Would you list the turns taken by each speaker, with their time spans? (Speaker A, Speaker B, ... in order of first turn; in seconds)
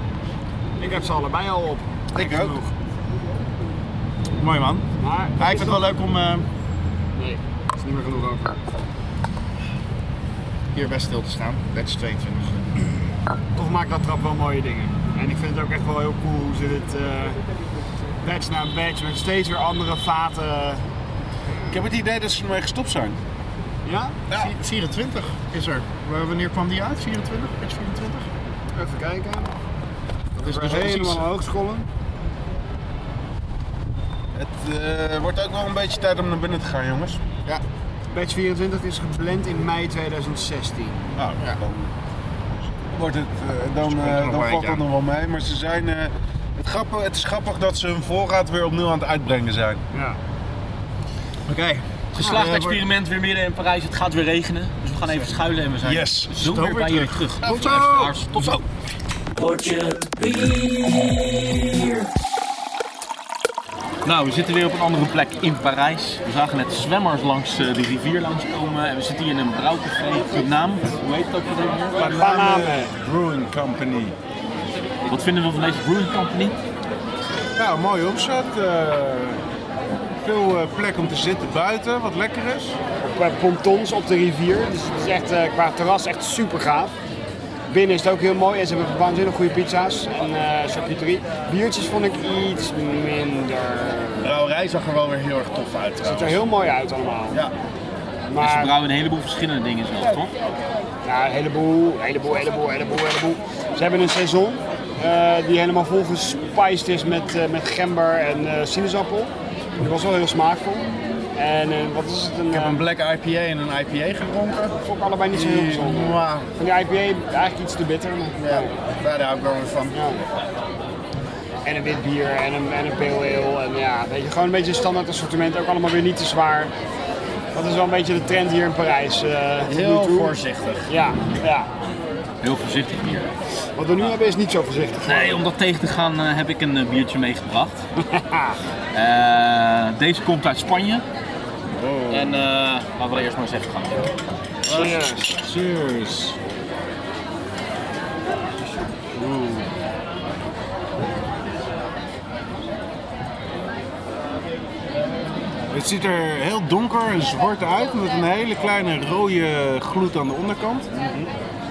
Speaker A: 0.8-2.7, 5.0-5.8, 7.2-8.6, 13.6-17.4, 18.2-20.8, 23.9-24.2, 28.7-29.5, 30.4-31.9, 38.1-41.1, 49.9-50.2, 72.0-73.0, 83.0-87.0, 87.7-94.4, 96.0-97.4, 98.3-98.8, 101.0-112.8, 114.8-118.7, 119.9-120.2, 121.7-126.7, 127.5-131.7, 133.8-135.4, 138.1-138.6, 144.7-145.3
Speaker B: 2.1-2.6, 21.7-23.2, 34.3-37.2, 41.2-41.9, 42.6-49.8, 55.8-56.5, 57.5-57.8, 72.0-74.2, 77.6-79.4, 80.2-82.8, 144.7-146.4, 149.2-149.7, 155.7-160.9
Speaker C: 4.4-6.5, 10.7-12.7, 24.3-28.3, 30.4-31.2, 43.8-44.8, 51.5-52.8, 56.4-58.6, 94.2-96.4, 112.5-114.8, 115.3-116.5, 118.4-120.0, 129.7-130.9, 141.8-142.3
Speaker D: 52.2-58.6, 59.4-61.9, 64.0-72.1, 75.1-76.6, 98.4-100.3, 132.4-133.3, 135.1-137.8, 138.9-141.1, 142.1-144.1